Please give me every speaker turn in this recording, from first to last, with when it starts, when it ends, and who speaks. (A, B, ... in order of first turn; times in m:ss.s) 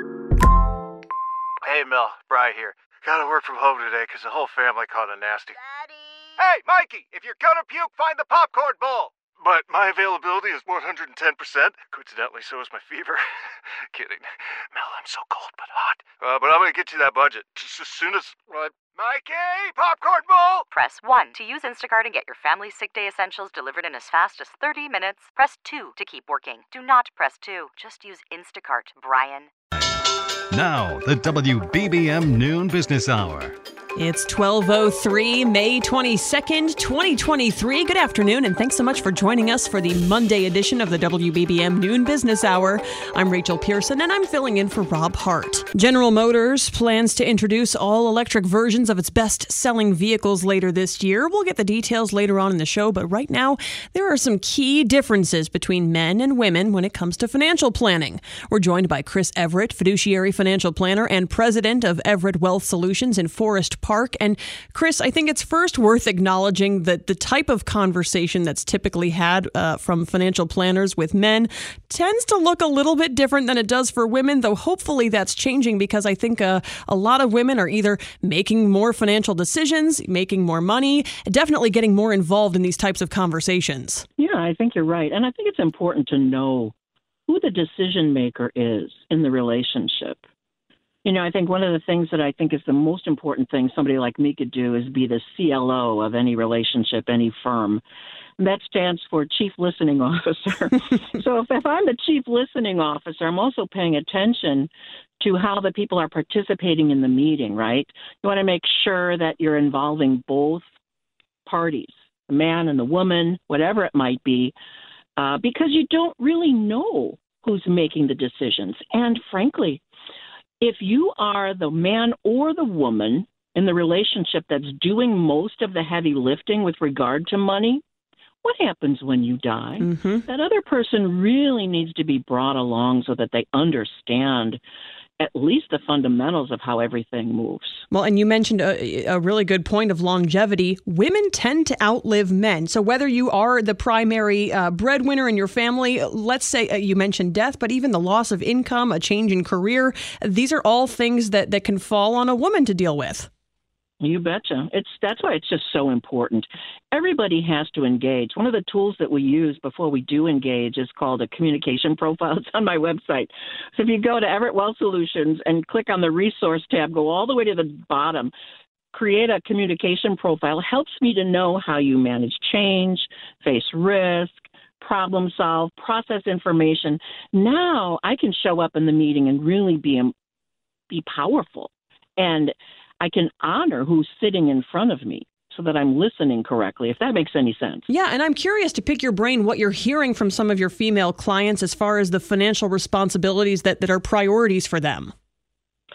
0:01.6-0:05.6 A
0:06.4-0:20.7 A
0:20.7-0:29.5 B
0:30.5-0:33.6 C
0:34.0-1:24.0 D
1:24.2-1:26.8 E
1:27.3-1:30.2 E
1:31.0-1:37.8 E
1:38.4-1:50.7 E
1:51.5-1:54.6 E
1:55.2-1:59.8 E
2:00.6-2:07.8 E
2:08.4-2:14.6 E
2:09.8-2:10.2 D
2:15.2-2:17.8 E
2:17.9-2:33.3 D
2:34.0-2:48.3 E
2:48.9-3:00.1 E
3:00.9-3:07.9 E
3:07.9-3:15.1 D